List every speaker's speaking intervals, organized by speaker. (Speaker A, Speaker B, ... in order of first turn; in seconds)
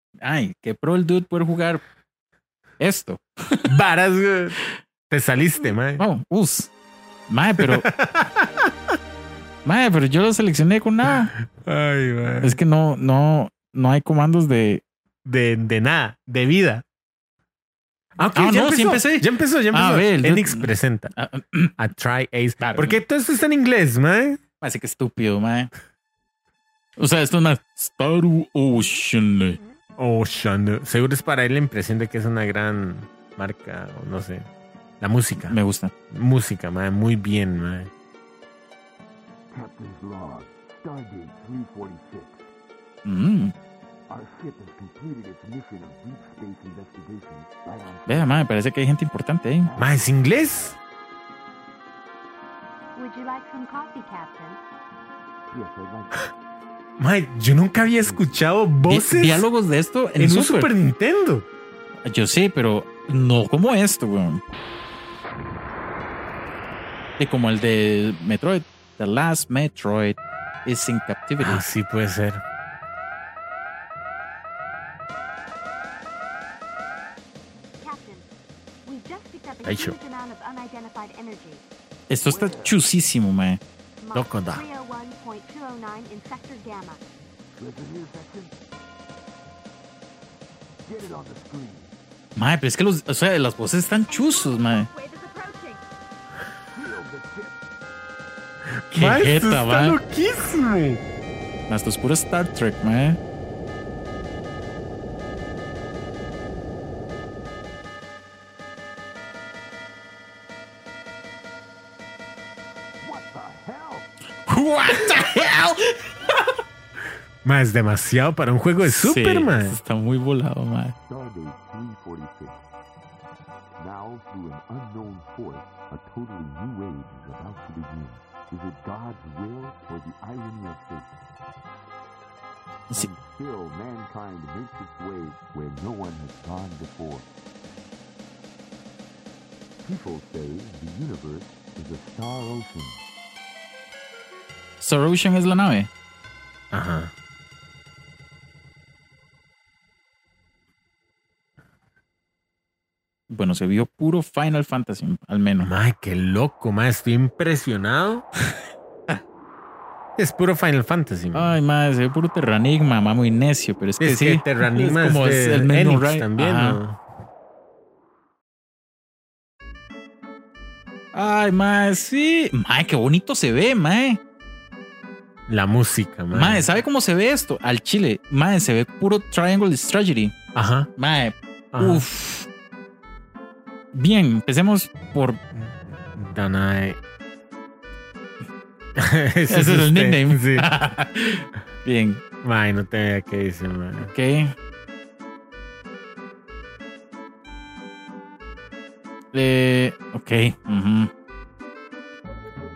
Speaker A: 0.2-1.8, 2.8-3.7, 6.0-6.7, 7.3-7.9, 9.6-11.3, 12.4-14.8, 18.3-21.8, 22.6-23.0, 24.6-25.7, 27.0-29.6, 35.5-35.9, 43.0-43.5, 48.1-49.7, 58.9-60.7, 62.0-64.4, 67.2-71.6, 82.1-83.6, 92.3-94.9, 98.9-100.0, 101.7-103.2, 114.5-116.3, 118.8-121.0, 144.8-145.9, 153.3-155.7, 161.3-166.8, 171.1-174.2, 176.3-180.3, 181.0-182.5, 183.9-185.4, 189.5-192.2, 194.1-194.5, 199.3-201.1
Speaker B: 3.7-4.6, 5.1-6.0, 7.6-8.7, 11.5-12.6, 15.2-16.8, 18.2-21.1, 21.8-24.4, 30.0-34.5, 35.0-35.6, 36.1-37.9, 49.8-50.8, 57.0-59.5, 60.2-61.5, 71.4-72.4, 79.6-79.9, 84.1-84.6, 98.9-101.0, 117.4-119.8, 146.7-147.1, 155.6-158.2, 160.2-161.6, 164.0-167.0, 175.5-176.7, 180.5-180.9, 181.7-182.0, 185.6-187.0, 188.9-190.7, 192.4-194.1
Speaker C: 39.5-42.5, 44.1-48.4, 49.6-50.8, 55.5-56.3, 82.2-82.8, 87.5-88.6, 90.8-91.9, 96.7-97.6, 113.0-114.1, 121.0-122.6, 123.8-131.2, 132.9-137.3, 139.8-143.0
Speaker D: 52.9-54.6, 77.8-78.2, 78.8-81.6, 84.0-87.0, 94.1-95.8